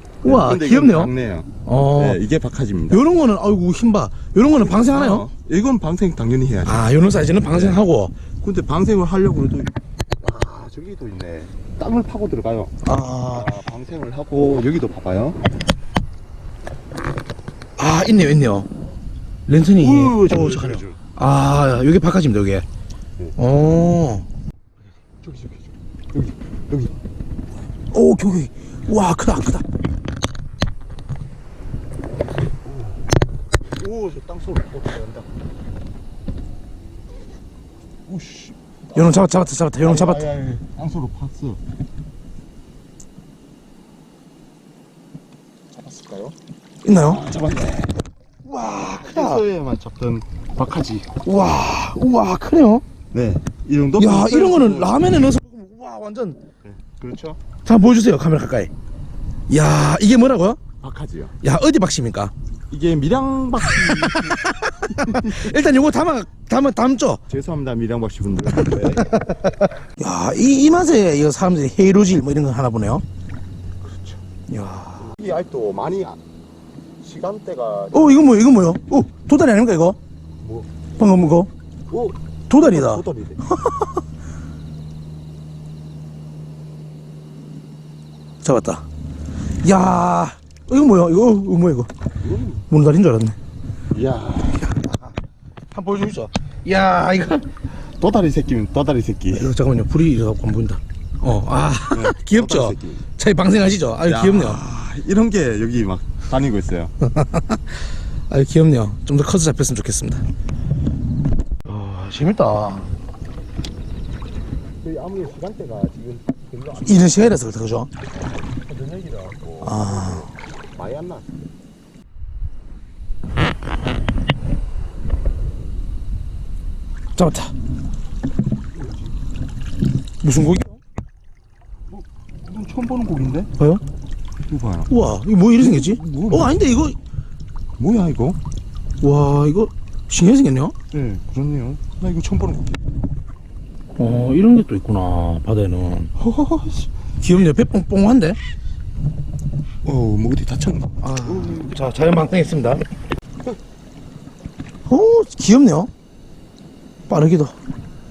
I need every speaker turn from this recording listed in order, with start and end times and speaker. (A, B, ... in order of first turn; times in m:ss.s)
0:00.2-0:01.1 A
0:00.2-0:03.0 B
0:01.6-0:02.2 A
0:02.9-0:05.3 A
0:04.5-0:07.8 B
0:06.6-0:08.1 A
0:08.4-0:15.4 B
0:12.8-0:13.5 A
0:17.8-0:18.7 A
0:19.5-0:22.6 A
0:19.8-0:21.0 B
0:23.4-0:24.2 A
0:25.2-0:26.9 B
0:27.9-0:29.6 A
0:33.8-0:35.3 B
0:38.1-0:41.6 B
0:38.9-0:40.2 A
0:45.7-0:46.3 B
0:46.8-0:47.2 A
0:47.0-0:48.0 B
0:48.4-0:49.4 A
0:48.7-0:51.2 B
0:51.2-0:52.8 A
0:53.1-0:55.0 B
0:54.0-0:56.4 A
0:56.6-0:57.4 B
0:57.6-0:58.7 A
0:59.5-1:00.6 A
1:00.8-1:01.3 B
1:01.4-1:02.3 A
1:02.7-1:05.5 B
1:03.7-1:07.2 A
1:07.3-1:09.1 B
1:08.5-1:13.0 A
1:13.8-1:14.2 B
1:14.5-1:15.1 A
1:15.0-1:16.2 B
1:17.0-1:18.3 B
1:17.9-1:20.0 A
1:20.4-1:20.7 B
1:21.0-1:21.5 A
1:21.9-1:23.4 B
1:22.5-1:24.0 A
1:28.4-1:28.8 A
1:29.6-1:31.9 A
1:32.2-1:32.7 B
1:32.7-1:33.4 A
1:33.9-1:34.7 B
1:34.6-1:35.1 A
1:35.7-1:37.5 A
1:37.8-1:39.5 B
1:39.3-1:44.6 A
1:41.9-1:43.0 B
1:44.0-1:46.9 B
1:47.0-1:47.7 A
1:48.3-1:50.2 A
1:51.6-1:52.9 A
1:54.8-1:57.4 B
1:56.8-1:57.9 A
1:58.1-2:01.4 B
1:59.6-2:00.3 A
2:07.2-2:07.5 A
2:08.7-2:09.1 B
2:10.2-2:10.8 A
2:11.9-2:13.5 B
2:14.5-2:14.9 B
2:14.9-2:17.0 A
2:15.6-2:16.7 B
2:17.8-2:18.4 B
2:19.0-2:20.7 A
2:20.9-2:22.8 B
2:24.0-2:26.1 A
2:26.2-2:26.9 B
2:27.2-2:28.4 A
2:29.8-2:31.8 B
2:31.0-2:32.8 A
2:34.9-2:35.9 A
2:37.1-2:37.5 A